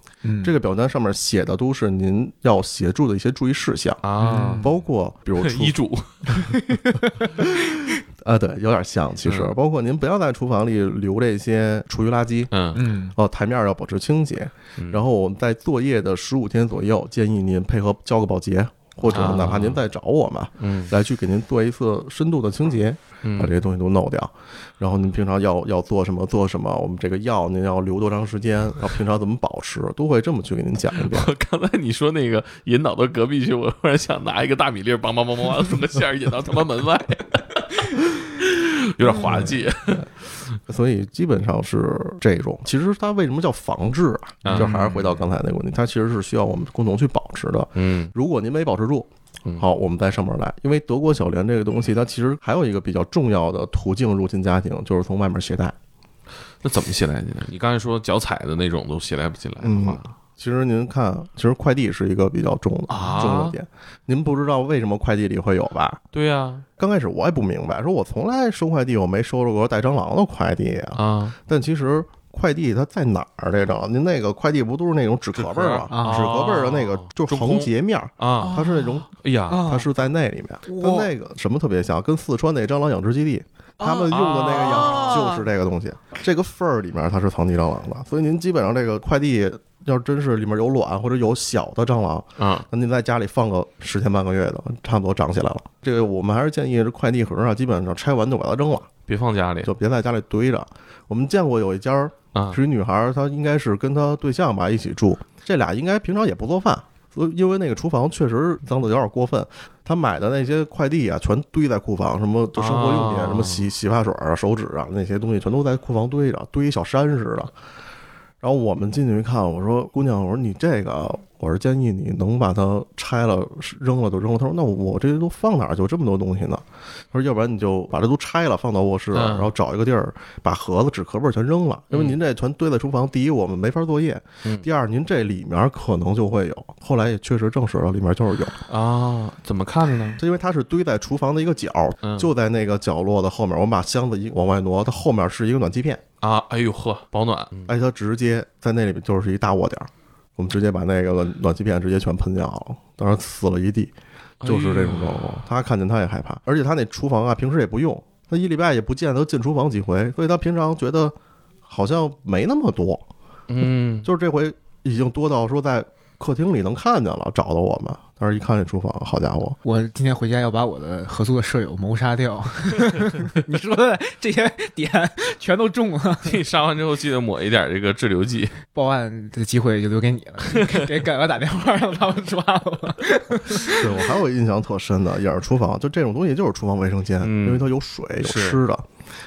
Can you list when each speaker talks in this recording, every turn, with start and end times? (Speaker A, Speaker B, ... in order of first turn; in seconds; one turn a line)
Speaker A: 0.2-0.5
Speaker B: 0.4-4.0
Speaker C: 4.0-4.7
Speaker A: 4.2-4.7
Speaker B: 4.6-5.8
Speaker C: 5.4-7.0
Speaker A: 6.5-6.9
Speaker B: 7.0-12.5
Speaker C: 9.2-9.5
Speaker C: 12.5-12.8
Speaker A: 12.7-13.2
Speaker B: 13.2-31.3
Speaker C: 14.8-15.0
Speaker A: 19.1-19.5
Speaker C: 19.1-19.8
Speaker C: 20.6-20.9
Speaker C: 23.2-23.5
Speaker C: 30.9-40.4
Speaker B: 39.1-40.0
Speaker B: 40.7-55.7
Speaker C: 44.4-44.7
Speaker A: 44.4-45.2
Speaker C: 47.7-48.1
Speaker C: 56.6-60.1
Speaker B: 59.6-66.0
Speaker A: 62.9-63.4
Speaker C: 63.0-63.5
Speaker C: 66.1-66.6
Speaker B: 66.8-79.0
Speaker C: 70.9-71.3
Speaker C: 75.3-78.5
Speaker A: 75.9-76.4
Speaker A: 78.4-79.9
Speaker C: 79.2-79.6
Speaker B: 79.6-98.9
Speaker A: 80.7-81.1
Speaker A: 83.8-85.4
Speaker C: 84.1-85.3
Speaker C: 92.4-92.7
Speaker C: 99.1-99.7
Speaker B: 99.6-117.5
Speaker C: 102.3-102.6
Speaker C: 112.5-113.7
Speaker B: 118.4-138.6
Speaker C: 129.1-129.5
Speaker C: 131.9-132.2
Speaker C: 138.7-140.2
Speaker B: 140.2-146.0
Speaker C: 142.0-142.3
Speaker C: 146.2-147.7
Speaker B: 147.7-153.9
Speaker C: 154.4-155.4
Speaker B: 154.4-161.1
Speaker B: 161.7-163.0
Speaker C: 163.5-164.1
Speaker B: 164.0-169.6
Speaker A: 169.6-176.4
Speaker C: 176.2-178.6
Speaker A: 178.7-183.8
Speaker C: 180.5-180.8
Speaker B: 183.7-188.8
Speaker C: 187.2-187.7
Speaker C: 188.2-188.6